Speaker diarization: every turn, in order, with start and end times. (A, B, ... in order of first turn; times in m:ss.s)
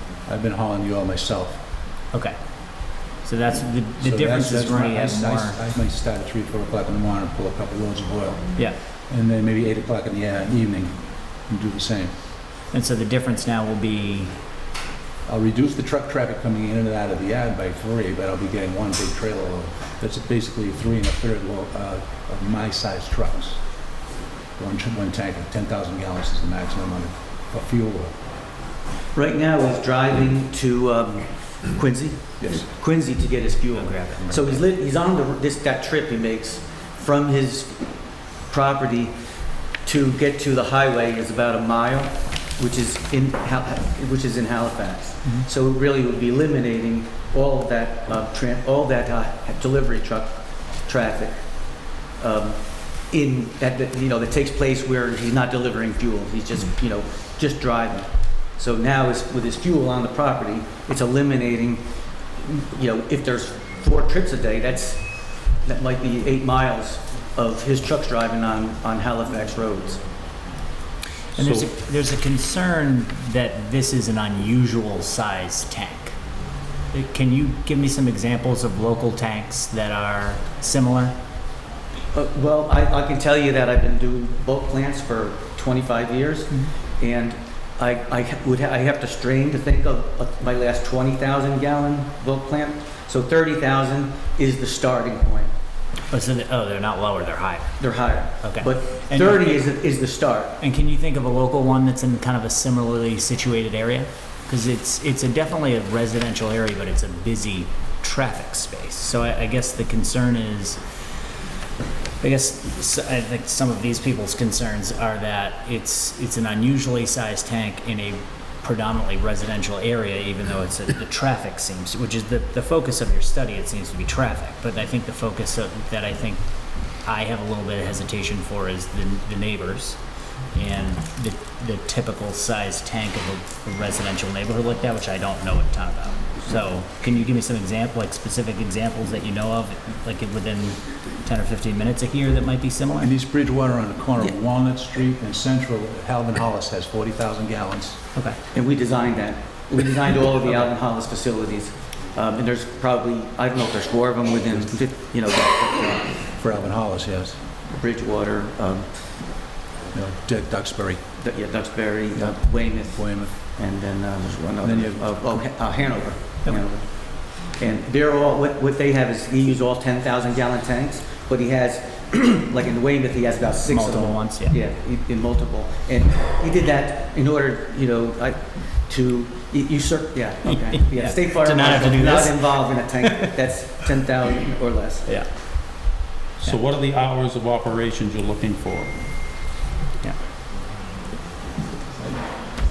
0:00.3-0:01.6 A
0:03.2-0:05.6 B
0:04.0-0:08.5 A
0:09.1-0:11.0 A
0:11.5-0:12.1 A
0:12.7-0:14.4 B
0:15.3-0:23.6 A
0:24.6-0:28.1 A
0:29.2-0:37.8 C
0:32.4-0:32.7 A
0:33.7-0:34.6 B
0:38.5-0:39.2 C
0:39.8-0:50.4 C
0:50.9-0:51.4 C
0:52.2-1:01.8 C
1:02.4-1:10.0 C
1:11.4-1:16.2 B
1:11.4-1:11.7 D
1:16.9-1:21.2 B
1:22.1-1:35.5 C
1:36.1-1:37.8 B
1:37.8-1:40.6 C
1:38.4-1:39.7 B
1:40.6-1:50.8 B
1:52.2-2:06.4 B
2:07.0-2:10.0 B
2:10.5-2:23.1 B
2:23.0-2:28.0 A
2:28.5-2:36.2 C
2:34.5-2:34.9 A
2:36.4-2:37.4 A
2:37.7-2:38.9 C
2:39.9-2:41.0 A
2:41.2-3:05.1 C
2:42.2-2:43.4 A
2:44.6-2:45.5 A
2:53.7-2:54.6 B
3:00.5-3:03.3 B
3:06.4-3:09.0 D
3:12.0-3:12.3 A